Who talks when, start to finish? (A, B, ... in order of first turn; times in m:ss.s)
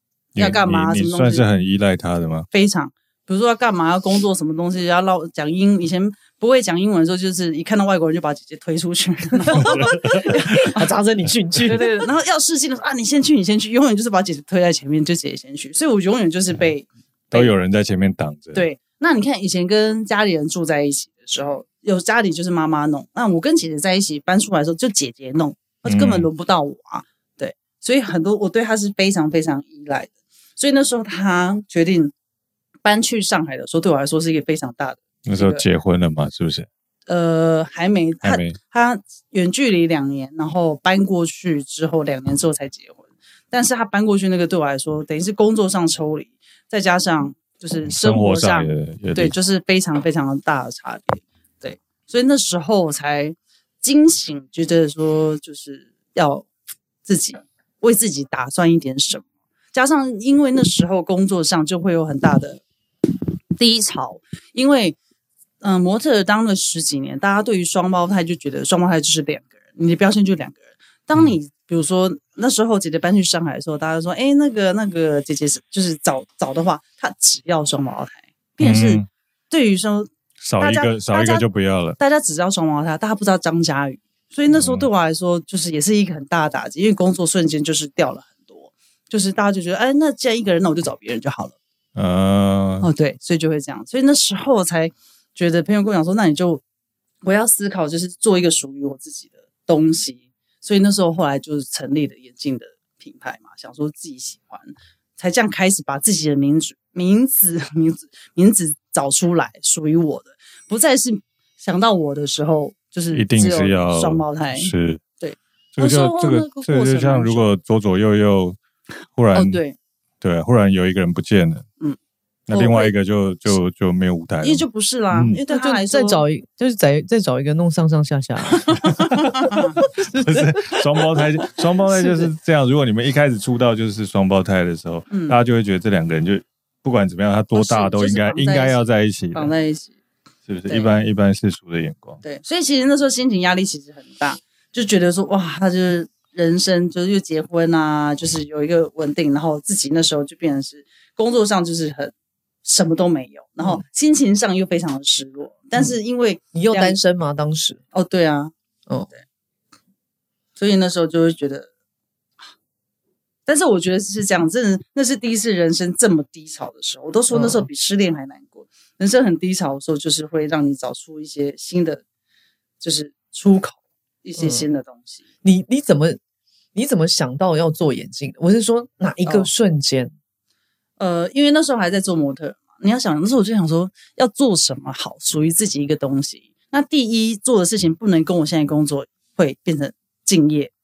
0:00.3-0:02.5 A
0:00.4-0:01.4 B
0:02.5-0:10.7 B
0:09.4-0:12.1 C
0:09.6-0:10.4 A
0:11.7-0:17.5 B
0:17.3-0:18.6 A
0:18.5-0:32.1 B
0:25.8-0:26.3 A
0:32.8-0:35.6 B
0:35.2-0:36.7 A
0:37.1-0:56.5 B
0:38.2-0:38.6 A
0:47.8-0:49.3 A
0:57.0-1:02.6 B
1:03.6-1:05.0 B
1:05.6-1:21.4 B
1:18.6-1:19.0 A
1:20.4-1:22.0 A
1:22.0-1:31.6 B
1:24.5-1:24.9 A
1:31.9-1:32.9 A
1:32.8-1:36.6 B
1:37.2-1:57.4 B
1:53.1-1:55.0 A
1:55.7-1:58.6 A
1:59.1-1:59.6 A
1:59.3-1:59.8 B
2:00.2-2:01.6 A
2:02.5-2:05.4 A
2:02.5-2:02.9 B
2:04.4-2:06.2 B
2:05.5-2:09.1 C
2:08.6-2:09.8 B
2:09.8-2:19.5 A
2:10.0-2:11.2 C
2:11.8-2:12.3 C
2:15.1-2:15.4 B
2:17.6-2:19.9 B
2:20.5-2:22.2 A
2:22.2-2:32.1 B
2:32.6-2:37.0 B
2:36.5-2:37.8 C
2:37.9-2:38.5 B
2:40.6-2:41.7 B
2:43.4-2:52.0 B
2:47.3-2:47.7 C
2:52.8-2:55.2 B
2:54.4-2:54.6 C
2:55.4-2:56.2 C
2:56.7-3:00.1 C
3:01.0-3:10.7 B